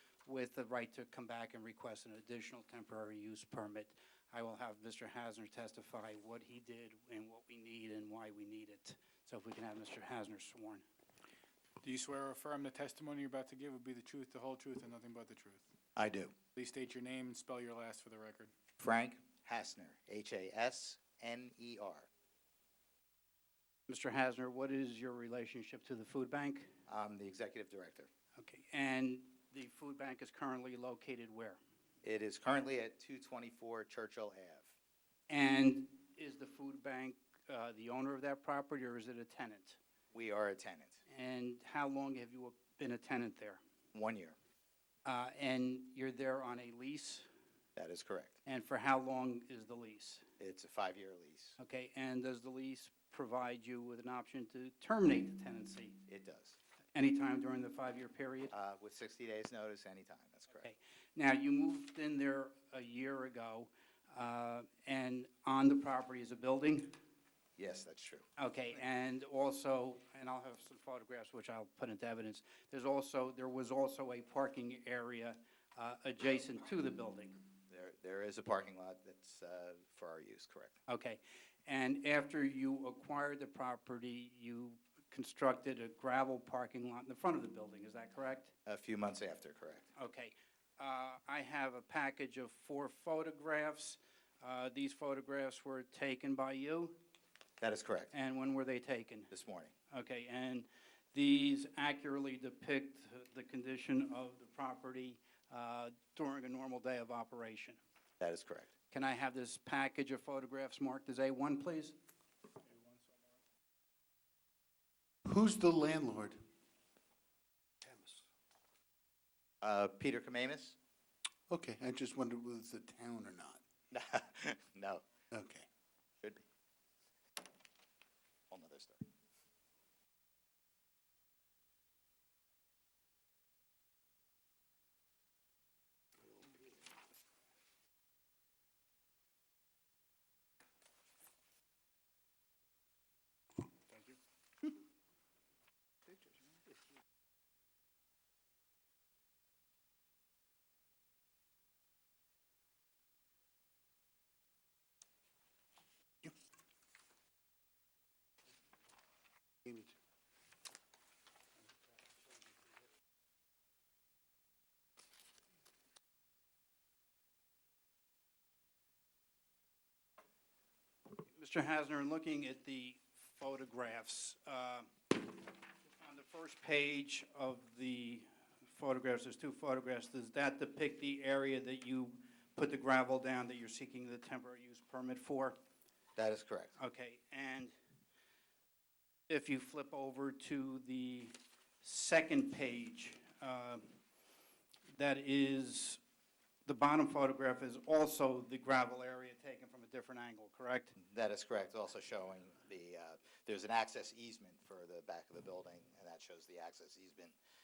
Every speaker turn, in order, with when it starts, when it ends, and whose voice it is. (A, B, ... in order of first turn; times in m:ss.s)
0:00.2-0:10.8 A
0:11.8-0:15.7 B
0:16.0-0:16.3 C
0:16.6-0:18.5 B
0:18.8-0:22.1 C
0:23.9-0:26.7 A
0:26.9-0:28.1 C
0:28.4-0:31.6 A
0:32.0-0:34.7 C
0:35.3-0:39.8 A
0:40.1-0:41.0 C
0:41.1-0:43.6 A
0:43.9-0:44.4 C
0:45.0-0:47.3 A
0:47.8-0:48.4 C
0:48.4-0:50.2 A
0:50.4-0:51.6 C
0:51.6-0:56.0 A
0:56.1-0:56.6 C
0:57.0-0:58.5 A
0:58.5-1:00.7 C
1:00.6-1:06.9 A
1:07.6-1:08.2 C
1:08.4-1:17.4 A
1:17.7-1:20.8 C
1:20.9-1:28.5 A
1:28.7-1:29.9 C
1:30.0-1:37.0 A
1:37.6-1:38.1 C
1:38.1-1:39.3 A
1:39.3-1:39.7 C
1:39.9-1:47.8 A
1:48.2-1:48.7 C
1:48.9-1:52.0 A
1:55.2-1:56.4 D
1:57.8-1:58.2 D
1:59.6-2:00.8 C
2:01.5-2:03.6 D
2:03.9-2:05.0 C
2:05.3-2:05.7 D
2:08.5-2:09.0 C
2:39.6-2:39.9 D
2:51.2-2:55.4 A
2:56.0-3:05.6 A
3:06.2-3:06.8 C
3:06.8-3:07.8 A
3:09.3-3:13.8 A
3:14.9-3:16.0 A
3:16.7-3:20.9 A
3:21.0-3:27.4 C